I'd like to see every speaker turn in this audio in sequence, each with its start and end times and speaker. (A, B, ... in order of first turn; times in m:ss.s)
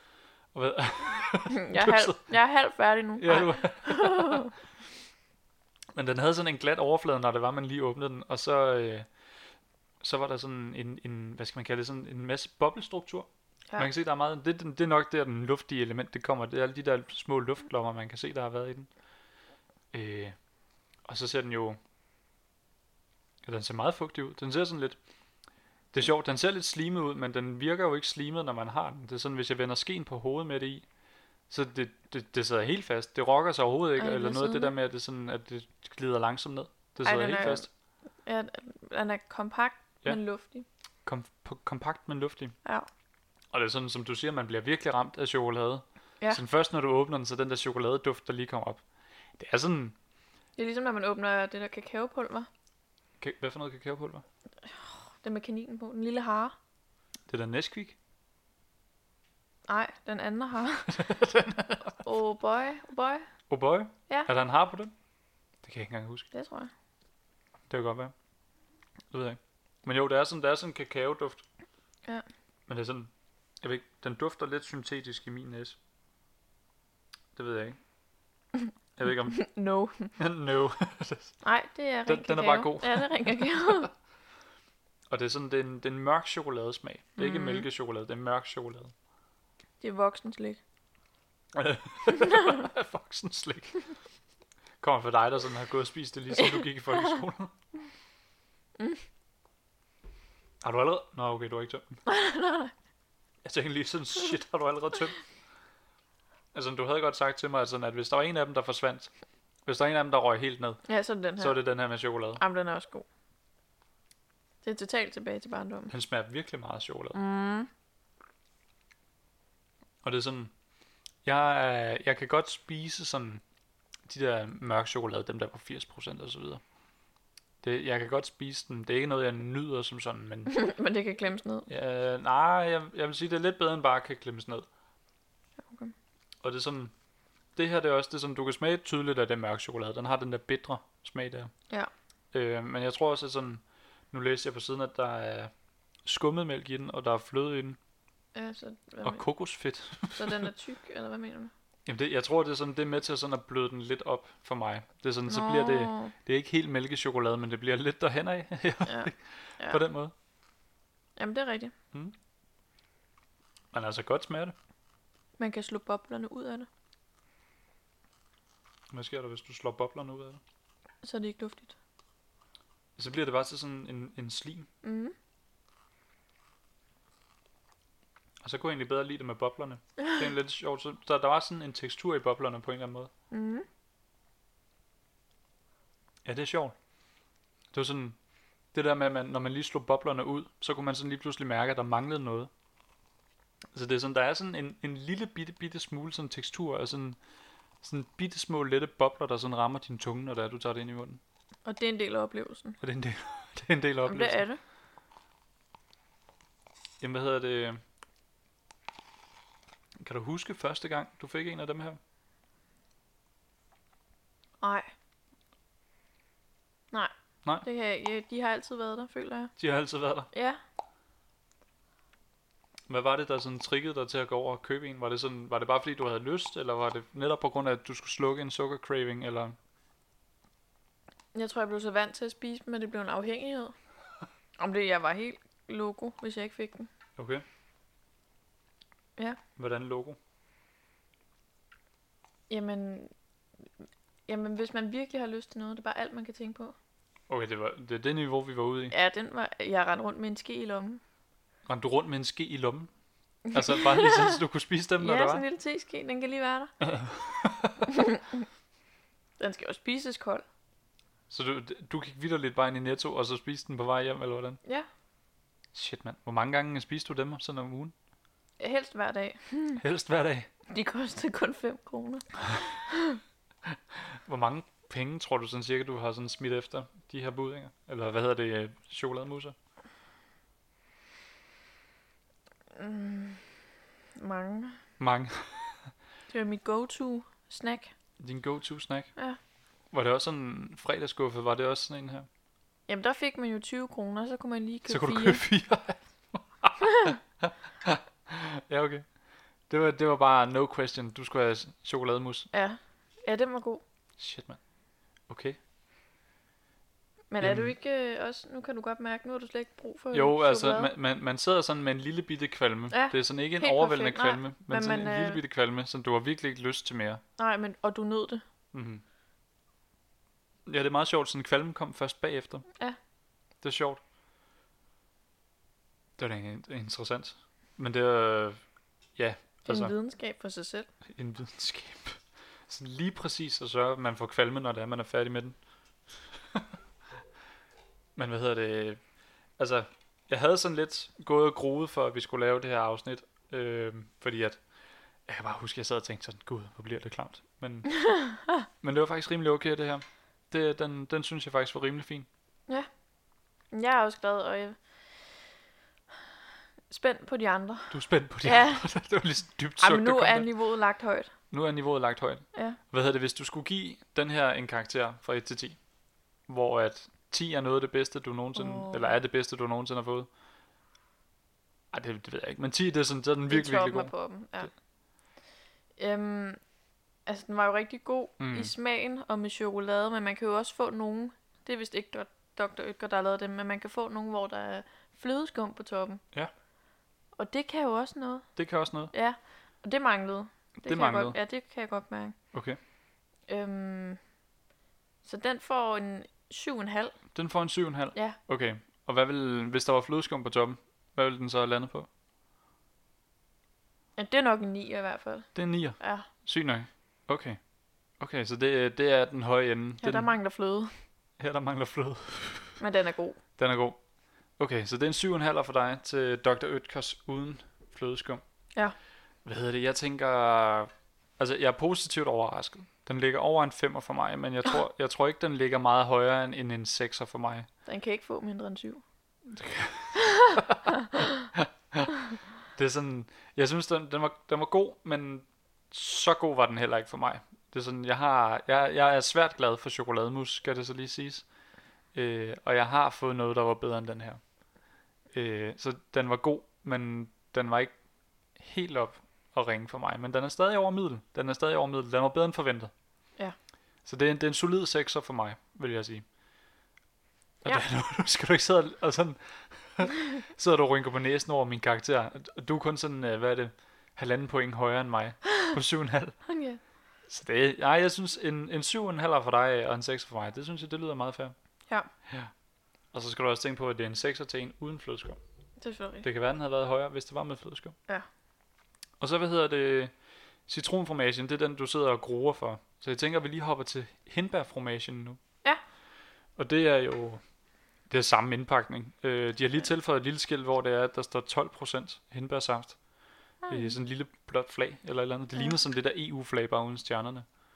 0:00.5-0:02.2 A
0:01.5-0:04.5 B
0:03.2-0:04.5 A
0:05.9-0:09.1 A
0:10.0-0:18.9 A
0:19.9-0:20.4 A
0:21.0-0:21.8 A
0:23.4-0:25.0 A
0:25.9-0:30.8 A
0:31.5-0:37.7 A
0:34.0-0:34.7 B
0:37.0-0:37.7 B
0:38.2-0:40.6 B
0:41.0-0:42.5 A
0:43.5-0:48.8 A
0:49.4-0:49.9 A
0:50.6-0:52.5 B
0:53.2-0:54.2 A
0:55.2-0:56.6 B
0:57.3-0:58.0 A
0:59.7-1:01.3 B
1:00.9-1:01.9 A
1:01.8-1:03.3 B
1:03.5-1:04.9 A
1:05.6-1:06.2 A
1:06.3-1:06.7 B
1:07.7-1:08.1 A
1:09.1-1:11.4 A
1:12.7-1:13.1 A
1:13.6-1:15.8 A
1:17.4-1:17.8 A
1:19.0-1:19.4 A
1:19.3-1:20.1 B
1:20.2-1:21.3 A
1:21.4-1:23.9 B
1:22.0-1:23.6 A
1:25.1-1:28.9 A
1:27.2-1:27.6 B
1:29.8-1:30.6 B
1:31.5-1:33.8 A
1:32.2-1:32.5 B
1:34.8-1:37.5 A
1:36.4-1:36.6 B
1:40.6-1:42.0 A
1:42.0-1:42.7 B
1:43.4-1:45.2 A
1:46.5-1:49.1 A
1:49.6-1:50.8 A
1:50.8-1:51.6 B
1:51.4-1:52.4 A
1:52.4-1:53.0 B
1:54.6-1:55.9 B
1:55.9-1:57.2 A
1:57.1-1:57.7 B
2:00.0-2:00.5 A
2:01.2-2:03.4 A
2:04.0-2:06.6 A
2:07.6-2:10.7 A
2:10.5-2:11.7 B
2:11.7-2:14.7 A
2:15.7-2:15.9 B
2:16.4-2:16.9 A
2:17.6-2:21.5 A
2:22.3-2:25.5 A
2:26.0-2:27.8 A
2:28.3-2:29.2 B
2:29.0-2:30.5 A
2:30.2-2:31.5 B
2:31.8-2:40.1 A
2:35.3-2:36.1 B
2:38.8-2:39.8 B
2:41.2-2:41.7 B
2:43.7-2:44.5 A
2:45.4-2:46.7 B
2:48.9-2:50.4 A
2:51.0-2:51.8 B
2:53.0-2:54.7 A
2:54.8-2:55.1 B
2:58.4-3:03.1 A
3:03.3-3:03.6 B
3:06.2-3:06.7 A
3:07.7-3:08.2 A
3:08.7-3:12.5 A
3:13.7-3:17.2 A
3:17.8-3:21.2 A
3:21.6-3:22.8 B
3:22.8-3:24.4 A
3:24.0-3:24.6 B
3:27.0-3:27.8 A
3:30.0-3:32.0 A
3:34.6-3:34.9 B
3:36.9-3:39.5 B
3:39.6-3:40.3 A
3:40.3-3:40.6 B
3:42.9-3:49.6 A
3:51.3-3:53.7 B
3:54.6-3:56.9 B
3:57.2-3:57.4 A
3:59.6-4:00.2 A
4:02.5-4:03.1 B
4:04.3-4:06.7 B
4:07.3-4:08.9 A
4:08.9-4:11.0 B
4:11.6-4:12.9 A
4:13.4-4:14.4 B
4:13.5-4:15.4 A
4:15.0-4:16.7 B
4:16.8-4:17.9 A
4:17.9-4:18.4 B
4:19.4-4:20.4 B
4:21.3-4:24.6 A
4:25.7-4:27.9 A
4:28.6-4:29.8 B
4:29.8-4:30.5 A
4:30.7-4:33.2 B
4:33.6-4:39.5 A
4:42.7-4:43.5 B
4:44.2-4:44.8 B
4:45.0-4:45.9 A
4:46.3-4:47.9 B
4:48.2-4:49.1 A
4:49.9-4:52.3 A
4:52.9-4:55.4 B
4:54.9-4:59.0 A
4:56.8-4:57.1 B
4:59.7-5:02.5 A
5:02.5-5:03.8 B
5:04.2-5:04.6 A
5:05.3-5:05.6 A
5:07.3-5:10.9 B
5:07.4-5:07.7 A
5:10.1-5:17.2 A
5:12.9-5:15.4 B
5:17.4-5:18.4 B
5:18.7-5:19.0 A
5:20.6-5:22.6 A
5:23.6-5:24.0 A
5:26.2-5:28.6 A
5:29.2-5:29.9 A
5:29.7-5:30.9 B
5:31.1-5:35.6 A
5:36.1-5:36.7 A
5:38.2-5:39.0 A
5:39.6-5:44.6 A
5:45.3-5:47.9 A
5:47.9-5:48.6 B
5:48.8-5:52.3 A
5:53.7-5:54.8 B
5:56.9-5:58.8 B
5:57.9-6:00.5 A
5:59.8-6:01.3 B
6:01.5-6:05.8 A
6:06.5-6:10.3 A
6:08.5-6:09.2 B
6:11.9-6:14.1 A
6:13.5-6:14.7 B
6:16.0-6:16.6 B
6:17.2-6:26.2 B
6:18.4-6:18.7 A
6:27.4-6:28.5 B
6:28.6-6:29.1 A
6:29.1-6:32.4 B
6:30.8-6:31.4 A
6:32.5-6:32.8 A
6:33.5-6:34.2 B
6:35.2-6:37.2 B
6:37.3-6:42.1 A
6:44.2-6:45.5 B
6:45.5-6:47.6 A
6:46.0-6:46.3 B
6:48.2-6:50.3 A
6:50.0-6:50.9 B
6:51.4-6:52.8 A
6:52.8-6:53.4 B
6:53.6-6:54.0 A
6:54.6-6:58.4 A
6:59.4-7:07.7 A
7:07.8-7:09.0 B
7:09.5-7:11.0 A
7:10.2-7:11.2 B
7:11.5-7:12.1 A
7:12.7-7:21.4 A
7:22.1-7:24.4 A
7:25.3-7:27.9 A
7:28.6-7:32.9 A
7:34.0-7:36.2 A
7:37.6-7:46.4 A
7:46.4-7:46.8 B
7:47.3-7:51.5 A
7:52.2-7:52.5 A
7:53.1-7:55.4 A
7:55.8-7:56.2 B
7:56.2-7:58.0 A
7:59.2-8:00.1 A
8:00.7-8:05.4 A
8:06.6-8:07.4 A
8:08.1-8:13.0 A
8:13.6-8:14.0 B
8:13.7-8:17.4 A